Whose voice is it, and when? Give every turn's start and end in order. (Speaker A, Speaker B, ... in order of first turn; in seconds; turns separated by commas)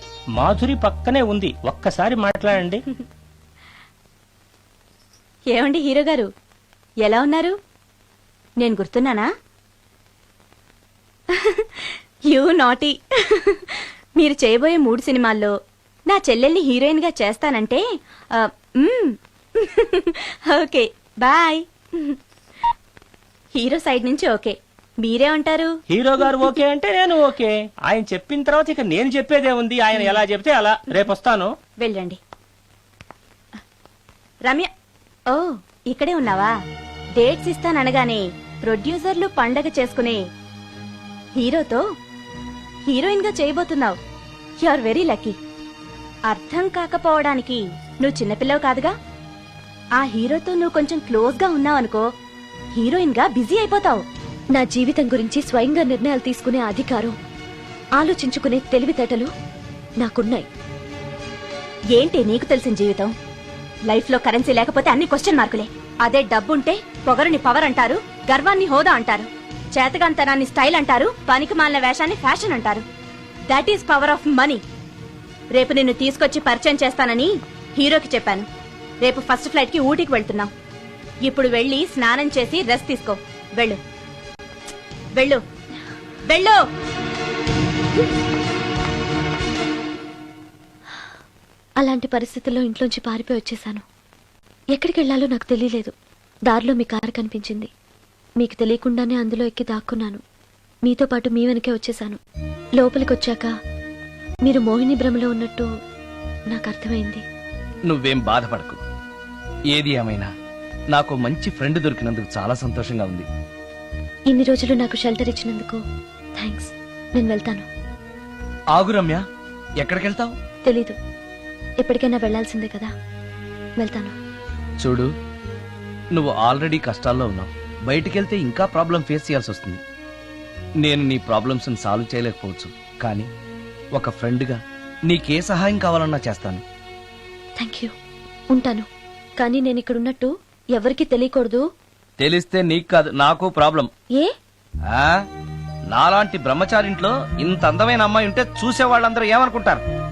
Speaker A: 0.4-2.8, Speaker B: 5.5-6.3, Speaker B: 7.0-7.5, Speaker B: 8.6-9.3, Speaker B: 11.3-15.5, Speaker B: 16.1-17.8, Speaker B: 18.8-22.1, Speaker B: 23.6-25.7, Speaker A: 25.9-31.5, Speaker B: 31.8-32.2, Speaker B: 35.3-36.5, Speaker B: 37.2-40.2, Speaker B: 41.4-41.8, Speaker B: 42.9-44.0, Speaker B: 44.6-45.3, Speaker B: 46.3-48.9, Speaker B: 50.0-52.0, Speaker B: 52.8-54.0, Speaker C: 54.5-57.1, Speaker C: 58.0-59.3, Speaker C: 60.0-60.5, Speaker B: 61.9-63.1, Speaker B: 63.9-72.8, Speaker B: 73.5-74.6, Speaker B: 75.5-78.5, Speaker B: 79.0-80.5, Speaker B: 81.2-83.8, Speaker B: 86.3-86.6, Speaker C: 91.8-93.8, Speaker C: 94.7-95.9, Speaker C: 96.5-97.7, Speaker C: 98.4-100.2, Speaker C: 100.8-102.2, Speaker C: 102.8-103.5, Speaker C: 104.4-105.7, Speaker C: 106.5-107.2, Speaker D: 107.9-108.8, Speaker D: 109.7-110.3, Speaker D: 110.9-113.3, Speaker C: 114.3-115.8, Speaker C: 116.3-117.7, Speaker D: 118.7-119.2, Speaker D: 119.8-120.3, Speaker C: 120.6-121.0, Speaker C: 121.8-122.9, Speaker C: 123.8-124.1, Speaker D: 124.8-125.1, Speaker D: 126.1-129.8, Speaker D: 130.8-133.3, Speaker D: 133.9-136.6, Speaker C: 137.6-137.9, Speaker C: 138.5-141.6, Speaker D: 142.2-143.9, Speaker D: 144.9-145.2, Speaker D: 145.9-149.8